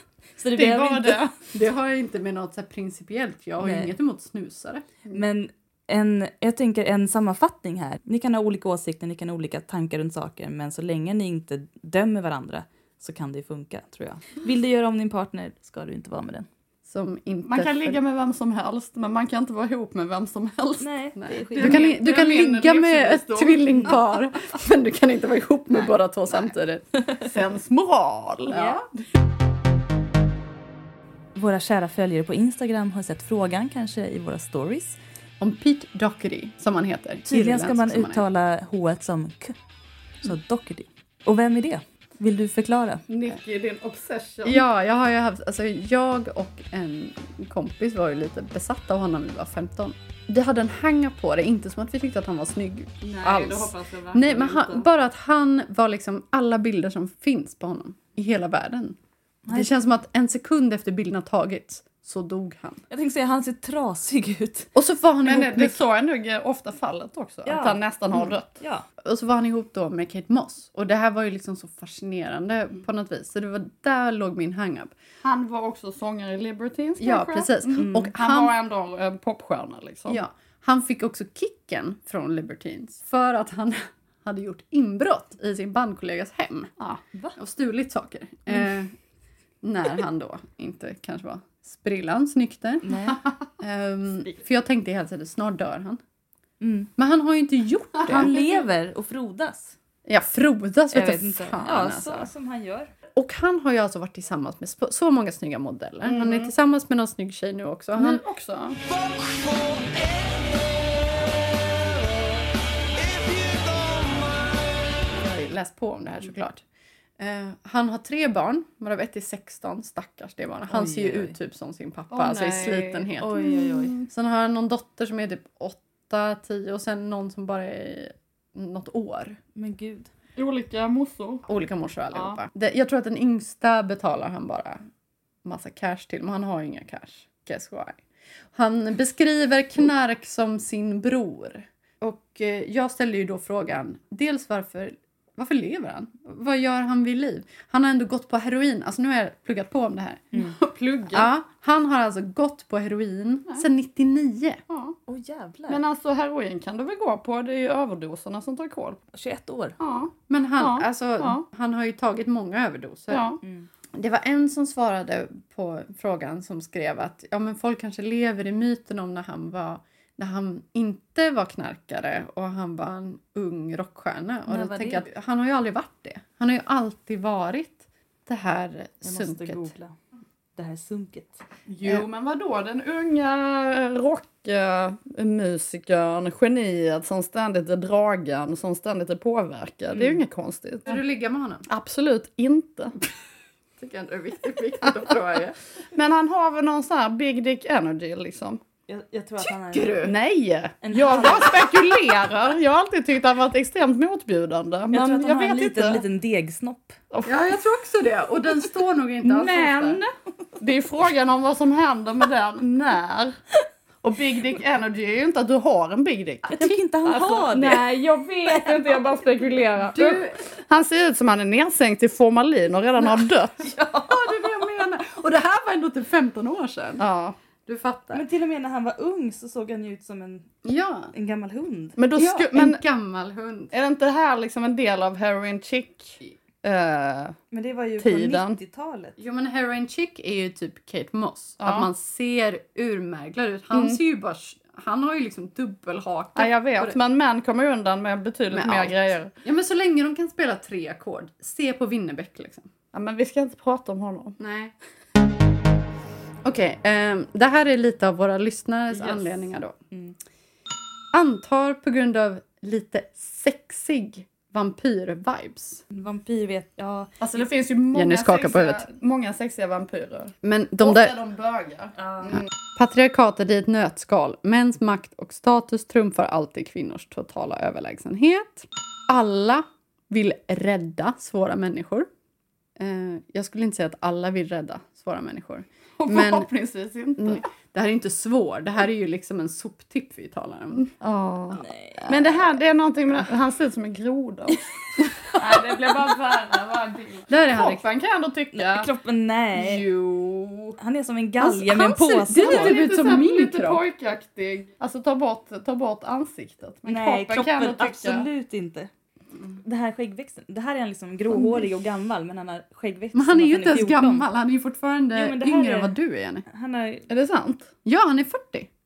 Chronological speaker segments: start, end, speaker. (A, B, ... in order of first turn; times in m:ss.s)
0:00.4-0:01.2 A
0:00.6-0:01.4 B
0:01.5-0:04.9 C
0:03.6-0:03.9 A
0:05.1-0:16.5 A
0:16.9-0:18.0 C
0:17.4-0:20.9 B
0:20.8-0:21.9 A
0:21.2-0:26.9 C
0:21.5-0:23.9 B
0:27.2-0:28.6 B
0:28.5-0:28.8 A
0:28.5-0:28.8 C
0:31.3-0:35.0 A
0:35.4-0:38.2 C
0:37.3-0:39.6 A
0:40.2-0:43.0 A
0:43.1-0:44.6 B
0:44.4-0:59.0 C
0:53.0-0:54.9 B
0:59.5-1:02.8 C
1:02.9-1:04.7 A
1:04.7-1:05.8 C
1:05.2-1:08.5 B
1:07.4-1:07.8 A
1:08.6-1:08.8 A
1:09.0-1:14.9 C
1:15.2-1:20.2 B
1:17.0-1:18.5 C
1:17.8-1:18.1 A
1:20.1-1:26.7 C
1:27.4-1:28.9 C
1:29.6-1:36.0 C
1:32.8-1:33.2 A
1:36.6-1:36.9 A
1:37.0-1:38.3 C
1:38.0-1:38.6 B
1:38.1-1:39.7 A
1:40.0-1:42.3 C
1:40.9-1:42.9 A
1:43.2-1:48.2 C
1:46.0-1:46.5 B
1:48.0-1:48.8 B
1:55.1-1:56.6 C
1:57.2-2:03.4 C
2:00.7-2:01.3 A
2:02.1-2:03.1 B
2:03.2-2:04.0 A
2:04.0-2:09.4 C
2:09.6-2:10.1 A
2:10.4-2:11.4 B
2:11.4-2:14.8 C
2:15.4-2:18.0 C
2:18.5-2:30.3 C
2:30.4-2:31.3 B
2:31.1-2:34.6 C
2:34.7-2:35.0 B
2:35.1-2:35.8 A
2:35.7-2:39.0 B
2:39.1-2:39.8 A
2:39.8-2:41.4 B
2:40.3-2:43.4 C
2:43.1-2:43.4 B
2:43.9-2:59.7 C
2:54.5-2:55.0 A
2:59.0-2:59.9 A
3:00.6-3:01.4 A
3:01.7-3:11.0 B
3:09.9-3:10.2 A
3:10.9-3:11.6 C
3:11.7-3:13.0 B
3:13.8-3:15.6 C
3:15.9-3:18.6 B
3:18.9-3:20.0 A
3:19.7-3:20.1 C
3:20.0-3:26.0 B
3:20.8-3:21.6 A
3:24.9-3:27.0 A
3:27.1-3:27.4 B
3:27.2-3:30.0 C
3:29.2-3:33.4 B
3:34.0-3:43.7 B
3:36.5-3:37.9 A
3:38.5-3:39.0 A
3:39.9-3:40.4 C
3:43.6-3:44.3 A
3:44.0-3:47.0 C
3:47.0-3:47.4 B
3:47.6-3:48.2 C
3:48.1-3:50.6 A
3:50.6-3:51.1 C
3:51.1-3:52.0 A
3:52.0-3:52.8 B
3:52.2-3:53.7 C
3:53.7-3:57.4 B
3:57.5-3:59.2 A
3:58.0-3:58.6 B
3:59.2-4:07.0 C
4:01.6-4:01.9 B
4:03.7-4:04.0 B
4:06.4-4:09.3 B
4:08.5-4:12.7 C
4:12.9-4:14.4 B
4:14.4-4:14.7 C
4:16.4-4:19.8 C
4:18.9-4:19.3 B
4:21.1-4:25.8 C
4:25.9-4:27.1 A
4:27.2-4:32.4 B
4:27.9-4:28.8 C
4:30.4-4:31.2 C
4:32.3-4:42.1 C
4:42.8-4:46.5 C
4:46.0-4:47.4 B
4:47.2-4:50.9 C
4:50.9-4:54.6 B
4:51.6-4:52.0 A
4:55.4-4:58.9 B
4:57.3-4:57.8 C
4:58.5-4:59.9 A
4:59.6-5:00.8 B
5:00.8-5:02.8 A
5:01.4-5:03.8 C
5:02.4-5:08.3 B
5:06.9-5:08.9 A
5:09.6-5:14.3 A
5:11.3-5:11.7 C
5:13.1-5:16.4 C
5:15.1-5:16.0 A
5:16.5-5:17.1 A
5:17.1-5:17.7 B
5:17.8-5:18.7 C